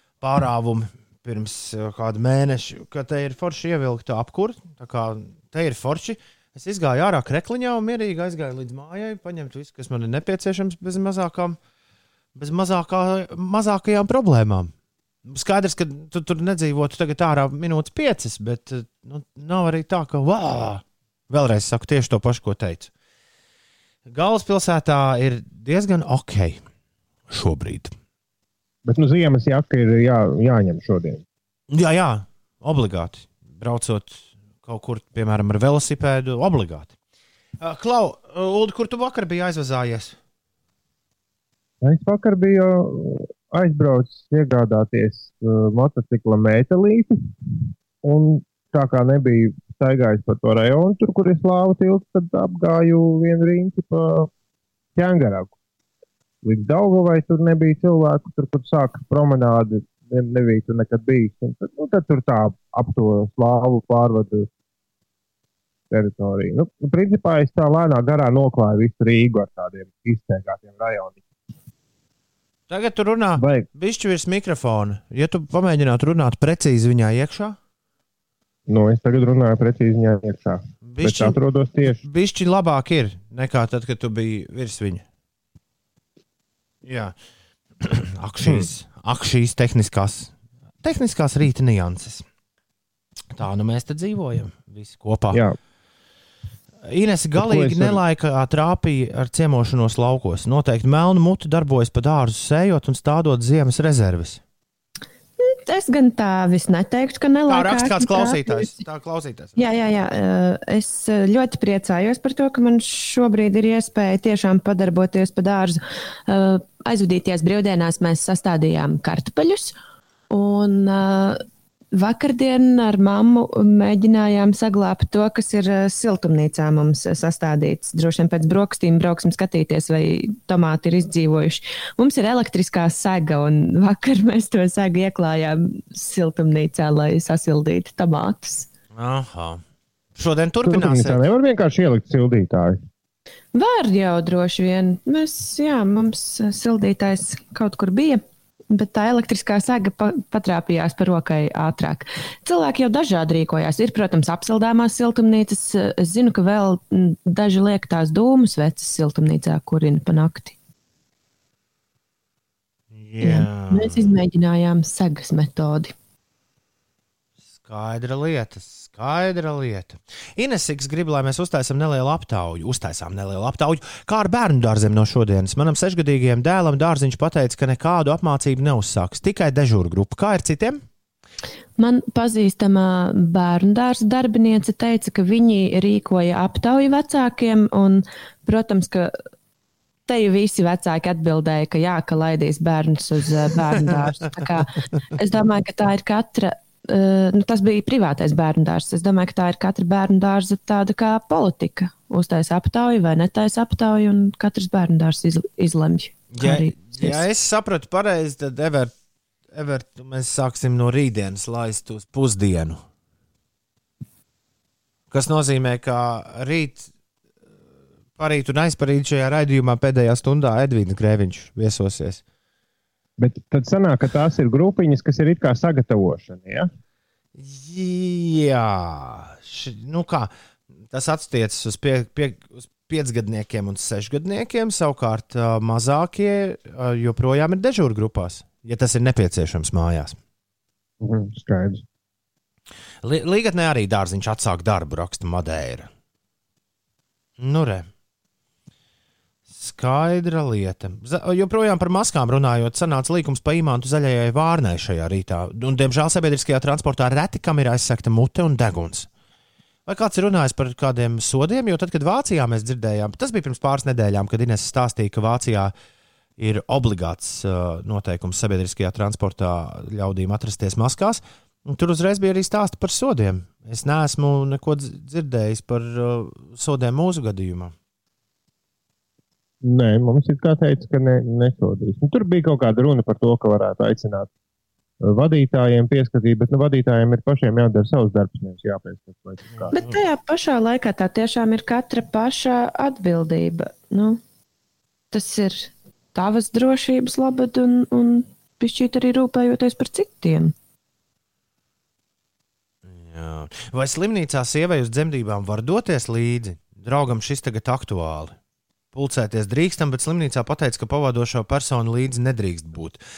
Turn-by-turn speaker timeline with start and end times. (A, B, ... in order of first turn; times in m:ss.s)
0:00.2-0:11.6 A
0:12.4-0:14.7 A
0:15.3-0:22.9 A
0:24.1-0:26.6 A
0:27.3-0:27.9 A
0:28.8-0:31.2 B
0:31.7-0:36.9 A
0:37.6-0:40.2 A
0:41.8-0:47.2 B
0:48.0-0:54.3 B
0:55.0-0:55.6 B
0:56.4-1:04.5 B
1:05.9-1:11.2 B
1:12.7-1:17.6 A
1:13.4-1:13.7 B
1:18.7-1:22.0 B
1:20.8-1:21.4 A
1:22.0-1:25.0 A
1:26.8-1:27.1 A
1:27.8-1:32.2 A
1:28.4-1:28.7 B
1:33.3-1:35.4 A
1:35.3-1:35.6 B
1:36.9-1:44.4 A
1:37.4-1:38.0 B
1:45.4-1:48.7 C
1:47.5-1:49.6 A
1:49.6-1:59.8 C
2:00.3-2:01.4 C
2:01.9-2:18.7 C
2:19.0-2:19.6 A
2:20.2-2:21.2 A
2:20.6-2:22.8 B
2:23.5-2:40.6 C
2:42.9-2:44.1 A
2:43.2-2:45.9 C
2:47.6-3:00.8 A
3:01.8-3:09.1 C
3:10.1-3:27.2 C
3:26.4-3:28.9 A
3:29.5-3:32.8 A
3:35.1-3:36.9 A
3:38.2-3:42.2 A
3:43.2-3:46.7 B
3:47.4-3:50.3 A
3:50.9-4:00.2 A
4:01.0-4:01.8 B
4:03.0-4:05.9 A
4:07.4-4:07.9 A
4:09.5-4:19.1 A
4:19.9-4:25.7 A
4:26.4-4:37.7 A
4:39.6-4:44.3 B
4:45.0-4:49.7 B
4:49.5-4:50.0 A
4:49.7-4:54.2 C
4:55.1-5:00.5 C
5:02.9-5:08.4 A
5:08.9-5:13.0 A